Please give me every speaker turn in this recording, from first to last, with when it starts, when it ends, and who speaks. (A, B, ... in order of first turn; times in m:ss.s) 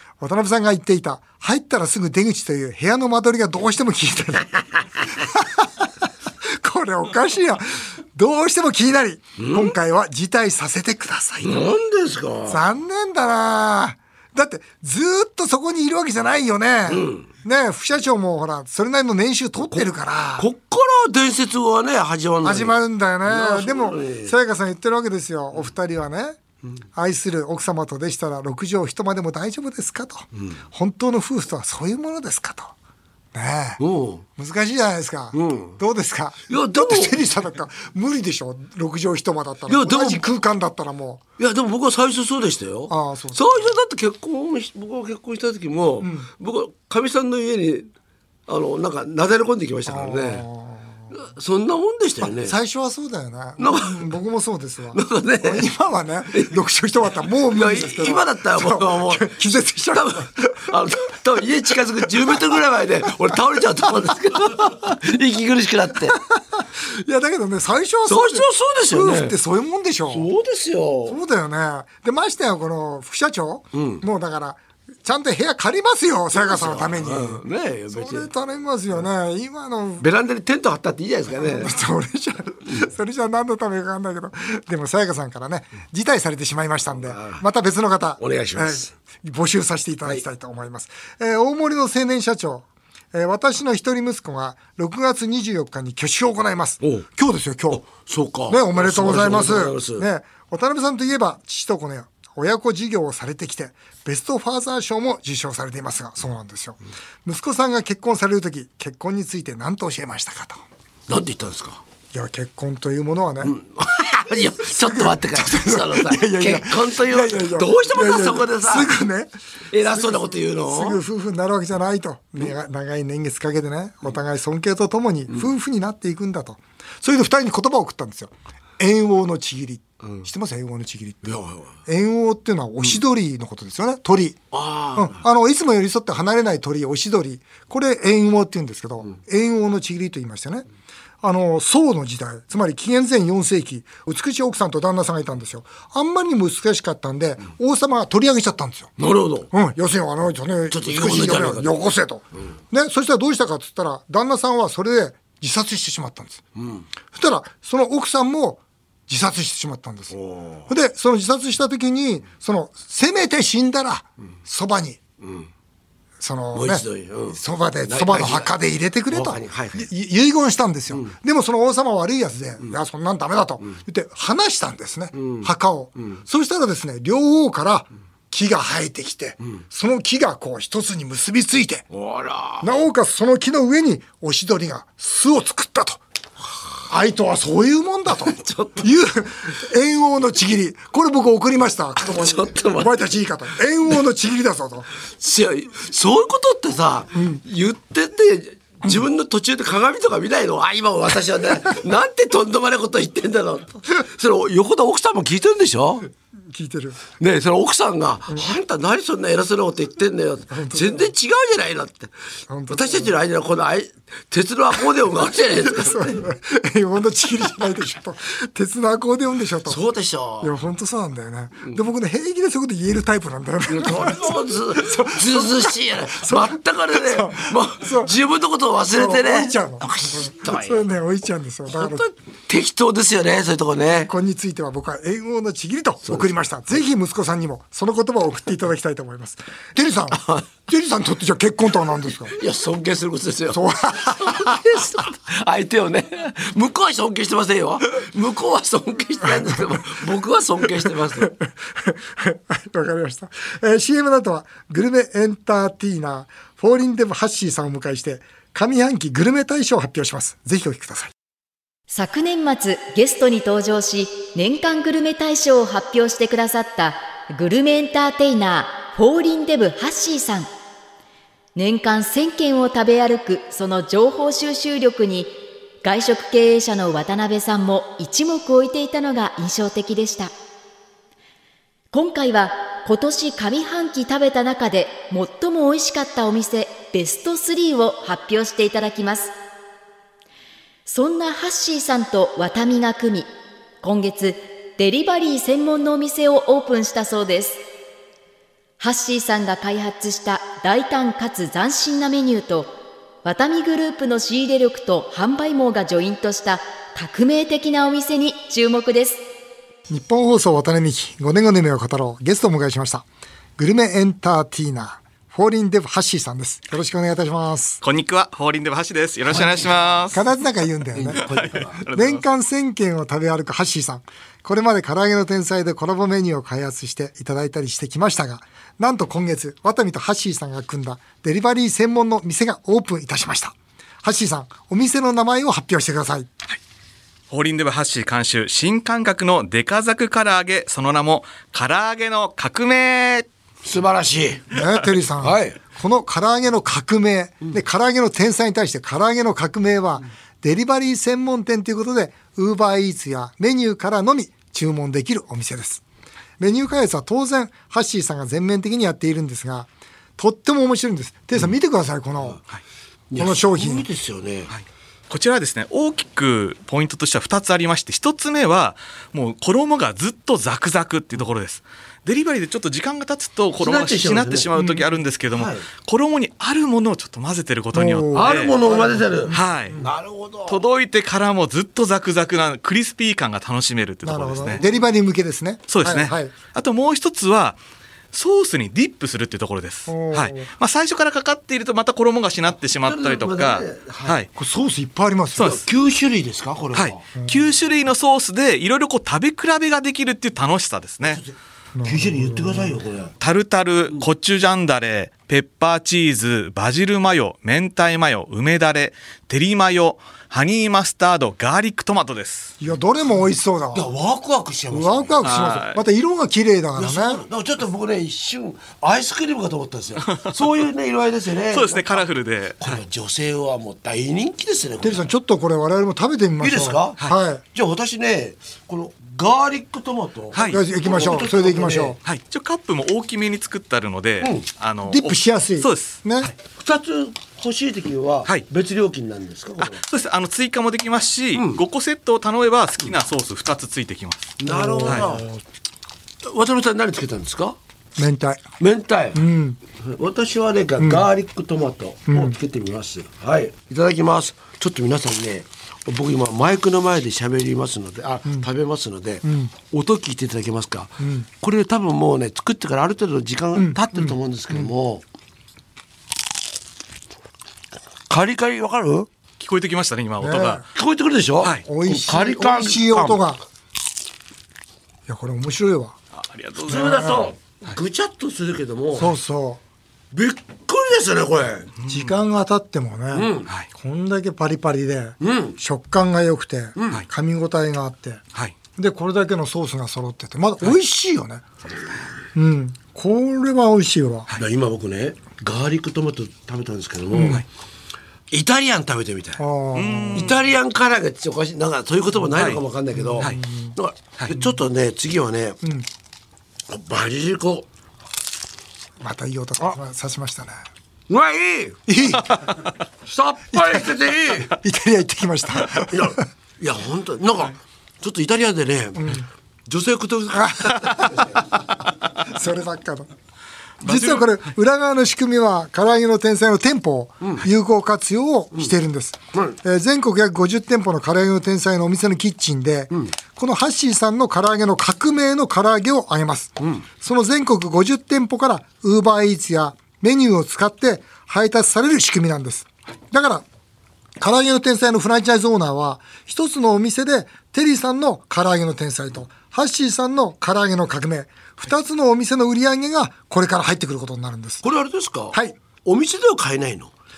0:00.2-0:05.7 A
0:06.6-0:11.6 A
0:09.4-0:09.7 B
0:11.4-0:12.6 B
0:12.5-0:20.5 A
0:16.9-0:17.3 B
0:19.6-0:22.7 B
0:22.4-0:26.4 A
0:23.3-0:24.3 B
0:27.0-0:32.7 A
0:33.3-0:33.8 A
0:33.8-0:34.2 B
0:34.4-0:41.2 A
0:35.3-0:35.8 B
0:36.5-0:37.2 B
0:39.7-0:40.3 B
0:41.4-0:47.9 B
0:42.9-0:43.7 A
0:46.0-0:46.3 A
0:48.5-0:50.4 B
0:49.9-0:51.1 A
0:51.1-0:52.5 B
0:52.2-1:00.7 A
0:53.6-0:54.1 B
0:54.9-0:55.7 B
0:57.5-0:59.4 B
0:59.9-1:06.2 B
1:06.9-1:10.3 A
1:08.0-1:09.4 B
1:10.1-1:11.2 B
1:11.1-1:20.1 A
1:13.7-1:14.0 B
1:16.3-1:18.3 B
1:20.0-1:21.8 B
1:21.4-1:37.9 A
1:27.0-1:27.4 B
1:28.2-1:28.9 B
1:37.7-1:40.1 B
1:38.5-1:50.6 A
1:51.1-1:51.8 B
1:52.1-1:53.5 A
1:53.4-1:58.9 B
1:54.6-1:59.3 A
1:59.7-2:01.0 B
1:59.9-2:14.4 A
2:11.2-2:11.7 B
2:14.5-2:15.2 B
2:14.9-2:20.7 A
2:21.2-2:28.9 A
2:29.0-2:29.5 B
2:29.5-2:36.4 A
2:30.7-2:31.8 B
2:36.6-2:36.8 B
2:37.1-2:45.0 A
2:40.1-2:40.6 B
2:45.2-2:45.5 B
2:46.2-3:01.8 A
2:46.5-2:48.5 B
2:49.1-2:49.9 B
2:55.1-2:56.2 B
3:01.9-3:02.7 B
3:02.6-3:06.0 A
3:06.9-3:14.9 A
3:08.2-3:08.9 B
3:12.0-3:13.1 B
3:15.1-3:26.1 B
3:17.1-3:17.4 A
3:26.5-3:27.0 A
3:27.2-3:32.1 B
3:30.5-3:31.1 A
3:32.5-3:33.2 A
3:32.7-3:36.2 B
3:35.7-3:39.8 A
3:39.6-3:40.5 B
3:40.4-3:48.1 A
3:43.7-3:50.9 B
3:48.9-3:52.1 A
3:51.7-3:54.1 B
3:54.1-4:02.4 A
4:00.1-4:00.4 B
4:02.3-4:11.3 B
4:03.5-4:04.6 A
4:11.2-4:21.1 A
4:21.9-4:30.5 C
4:31.6-4:40.3 C
4:41.9-4:49.3 C
4:50.9-4:53.3 C
4:53.8-4:57.6 C
4:58.8-5:02.7 C
5:03.2-5:09.2 C
5:09.9-5:13.1 A
5:13.6-5:17.8 A
5:17.8-5:20.2 D
5:19.3-5:19.7 B
5:20.1-5:21.2 A
5:20.9-5:21.8 B
5:21.2-5:22.2 D
5:21.9-5:36.3 A
5:37.3-5:43.2 D
5:43.6-5:44.6 B
5:44.5-5:55.8 A
5:45.2-5:45.6 B
5:56.4-6:02.4 A
6:03.1-6:04.5 B
6:03.2-6:03.9 A
6:04.5-6:18.6 D
6:13.6-6:14.5 B
6:14.6-6:14.8 A
6:15.3-6:15.6 B
6:17.7-6:19.9 A
6:18.1-6:20.6 B
6:19.3-6:19.8 D
6:20.5-6:24.6 D
6:24.0-6:26.3 A
6:25.7-6:27.6 D
6:28.1-6:34.3 D
6:29.9-6:30.5 A
6:32.8-6:34.2 B
6:34.4-6:35.6 A
6:35.4-6:35.6 D
6:35.4-6:37.0 B
6:36.7-6:41.2 D
6:41.0-6:43.1 B
6:41.8-6:42.8 A
6:43.2-6:52.5 D
6:52.6-6:53.9 A
6:53.7-6:55.3 B
6:54.7-6:57.2 A
6:55.2-6:55.8 D
6:56.8-7:02.1 B
7:00.1-7:00.3 D
7:01.5-7:02.8 D
7:02.6-7:05.1 B
7:04.8-7:07.4 A
7:06.4-7:12.0 B
7:10.3-7:10.6 D
7:10.4-7:12.0 A
7:12.0-7:16.3 D
7:14.2-7:14.5 B
7:14.9-7:16.3 A
7:16.6-7:19.8 B
7:19.6-7:25.1 D
7:21.3-7:21.6 B
7:24.4-7:25.3 B
7:24.4-7:25.4 A
7:26.2-7:27.6 B
7:28.0-7:28.4 A
7:28.6-7:29.2 B
7:29.1-7:29.6 A
7:29.8-7:45.0 B
7:30.8-7:31.1 A
7:32.1-7:32.4 A
7:39.2-7:39.5 A
7:41.0-7:41.3 A
7:43.6-7:44.7 A
7:48.1-7:49.1 B
7:49.4-7:50.6 D
7:50.2-7:50.6 A
7:50.7-7:53.2 B
7:51.6-7:53.4 A
7:55.1-7:56.0 A
7:56.1-7:57.2 D
7:56.6-7:59.2 B
7:56.7-7:57.3 A
7:58.9-7:59.6 A
8:00.1-8:01.7 B
8:01.8-8:02.2 D
8:01.9-8:08.2 A
8:03.1-8:03.5 B
8:05.2-8:05.6 B
8:06.8-8:07.0 B
8:08.8-8:11.4 A
8:12.3-8:14.3 A
8:14.4-8:17.4 B
8:17.1-8:17.4 A
8:18.3-8:19.4 B
8:19.4-8:20.3 A
8:19.7-8:20.4 D
8:20.1-8:25.6 B
8:22.3-8:22.6 D
8:23.0-8:23.8 A
8:25.6-8:25.9 A
8:26.7-8:27.7 B
8:29.0-8:30.6 A
8:31.1-8:31.8 B
8:31.9-8:32.5 A
8:32.3-8:32.7 D
8:33.0-8:34.5 B
8:33.6-8:33.9 A
8:34.4-8:36.2 A
8:35.9-8:41.4 B
8:39.0-8:39.3 A
8:40.3-8:41.3 A
8:42.2-8:43.1 A
8:43.8-8:44.4 D
8:43.8-9:03.5 A
8:56.6-8:56.8 B
9:04.2-9:14.6 A
9:14.6-9:16.9 B